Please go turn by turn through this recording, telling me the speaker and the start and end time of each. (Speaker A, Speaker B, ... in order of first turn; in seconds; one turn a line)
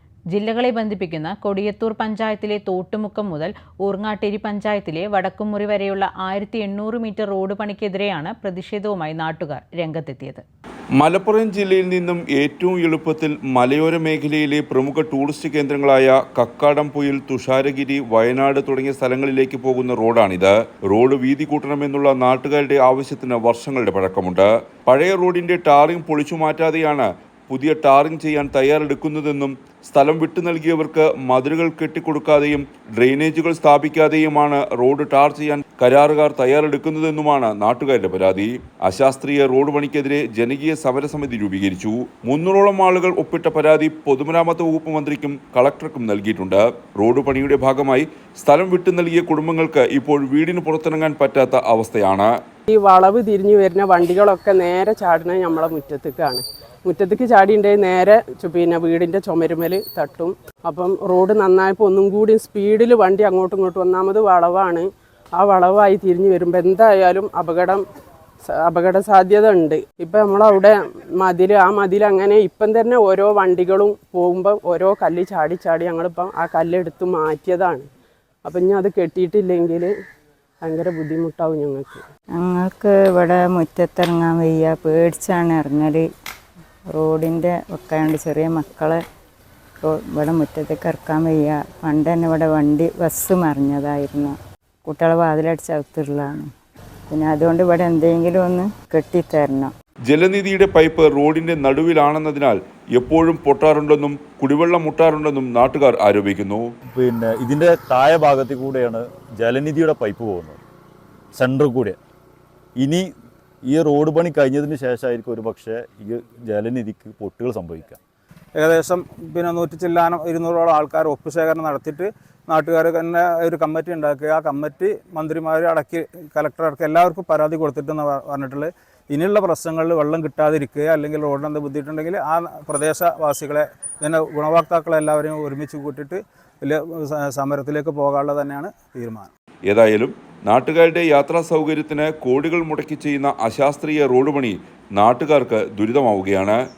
Speaker A: 0.3-10.4
Speaker B: 11.0-52.3
Speaker C: 52.7-64.9
Speaker C: 65.4-67.8
Speaker C: 68.5-77.9
Speaker C: 78.5-79.9
Speaker C: 80.6-82.0
Speaker D: 82.4-86.0
Speaker D: 87.0-89.0
Speaker D: 89.8-96.5
Speaker D: 97.1-99.7
Speaker B: 100.1-106.7
Speaker E: 106.9-110.6
Speaker E: 111.4-112.0
Speaker E: 112.8-113.1
Speaker E: 113.7-118.0
Speaker F: 118.5-139.3
Speaker B: 139.7-146.6